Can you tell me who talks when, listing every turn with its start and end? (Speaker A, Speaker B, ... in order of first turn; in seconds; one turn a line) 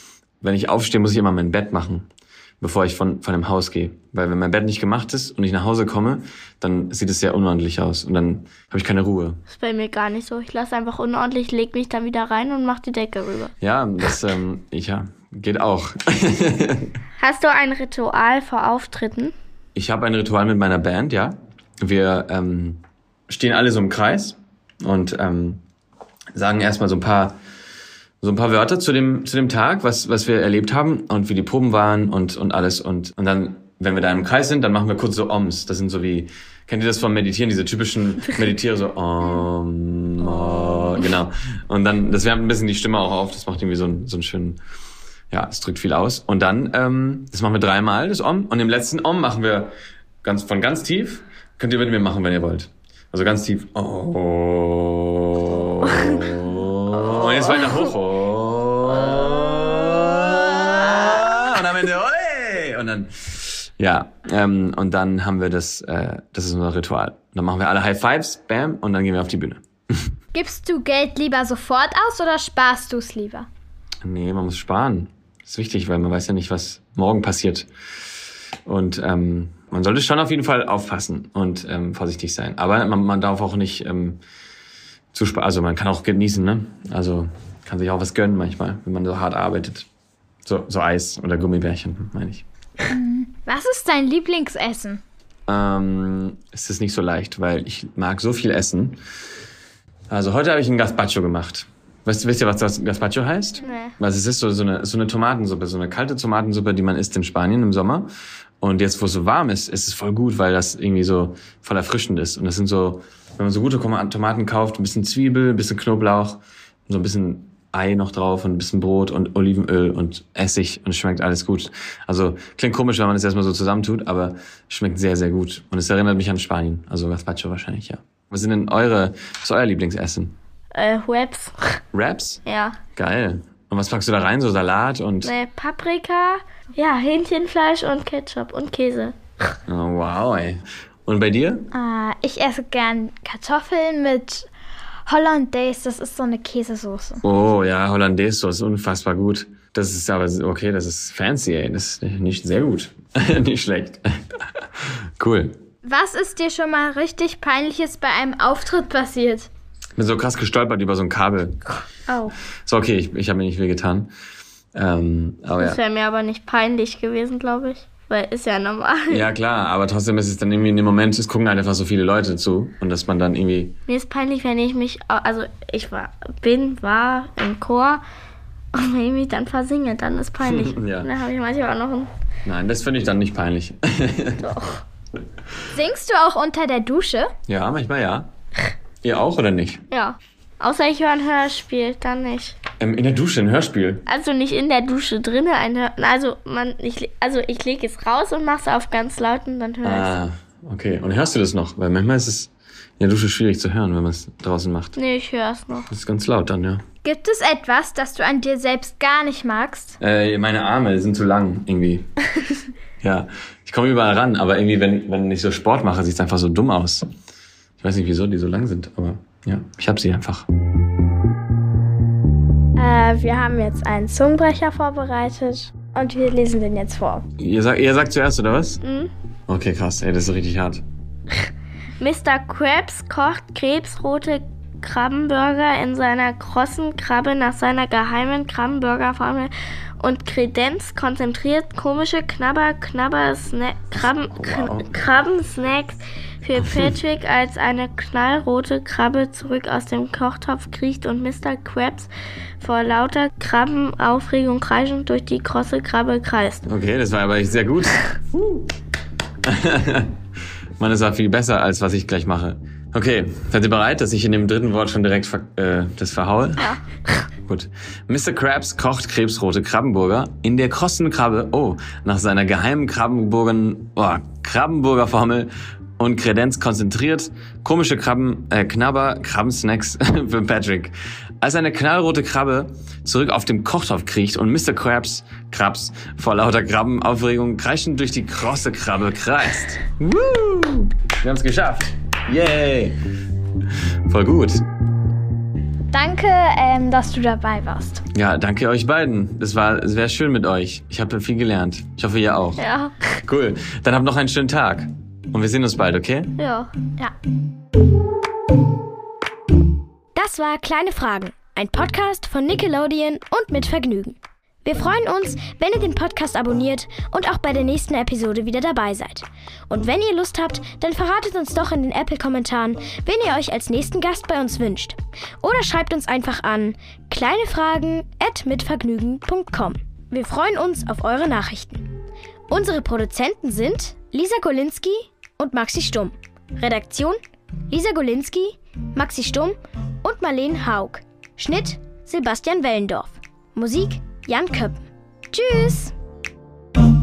Speaker A: 0.4-2.0
Speaker A: 2.6-9.4
Speaker B: 9.5-13.5
Speaker A: 13.6-16.9
Speaker B: 17.2-19.3
Speaker A: 19.7-25.6
Speaker A: 26.3-27.4
Speaker A: 28.2-44.6
Speaker A: 45.3-49.7
Speaker A: 50.2-70.1
Speaker B: 57.1-57.4
Speaker C: 70.3-73.5
Speaker A: 74.0-77.7
Speaker A: 78.7-84.2
Speaker A: 85.1-89.9
Speaker A: 90.4-92.4
Speaker C: 92.9-95.0
Speaker A: 95.5-99.0
Speaker A: 100.1-108.1
Speaker B: 103.6-103.9
Speaker A: 108.6-130.3
Speaker B: 130.7-131.8
Speaker A: 131.9-132.4
Speaker B: 132.4-132.8
Speaker A: 132.9-135.3
Speaker B: 135.2-139.5
Speaker A: 139.7-141.6
Speaker C: 141.7-144.5
Speaker C: 145.1-147.2
Speaker A: 147.2-154.0
Speaker A: 155.2-155.5
Speaker C: 155.8-159.5
Speaker A: 160.0-161.6
Speaker B: 162.1-162.3
Speaker A: 162.7-164.1
Speaker A: 164.7-165.8
Speaker B: 165.6-169.3
Speaker A: 169.1-173.7
Speaker B: 173.9-178.0
Speaker B: 178.7-182.1
Speaker A: 180.4-181.1
Speaker A: 182.4-184.4
Speaker B: 184.4-184.8
Speaker C: 185.7-187.3
Speaker A: 187.5-188.3
Speaker A: 189.0-189.8
Speaker B: 189.9-192.6
Speaker A: 192.8-194.0
Speaker B: 194.1-200.2
Speaker A: 199.8-204.9
Speaker B: 204.9-205.9
Speaker A: 205.9-206.8
Speaker C: 207.0-210.0
Speaker A: 210.0-212.1
Speaker A: 213.0-217.1
Speaker A: 217.8-220.4
Speaker C: 222.8-227.2
Speaker A: 227.4-228.8
Speaker B: 228.8-229.1
Speaker A: 229.5-230.8
Speaker B: 232.0-256.7
Speaker A: 244.3-244.9
Speaker A: 256.7-258.6
Speaker A: 259.4-260.1
Speaker A: 260.8-266.7
Speaker B: 266.6-267.2
Speaker A: 267.4-293.0
Speaker A: 294.1-294.6
Speaker C: 295.9-298.0
Speaker A: 298.1-302.6
Speaker B: 302.6-303.0
Speaker A: 303.2-306.3
Speaker B: 306.4-306.7
Speaker D: 310.1-331.9
Speaker D: 332.5-344.8
Speaker D: 345.3-345.9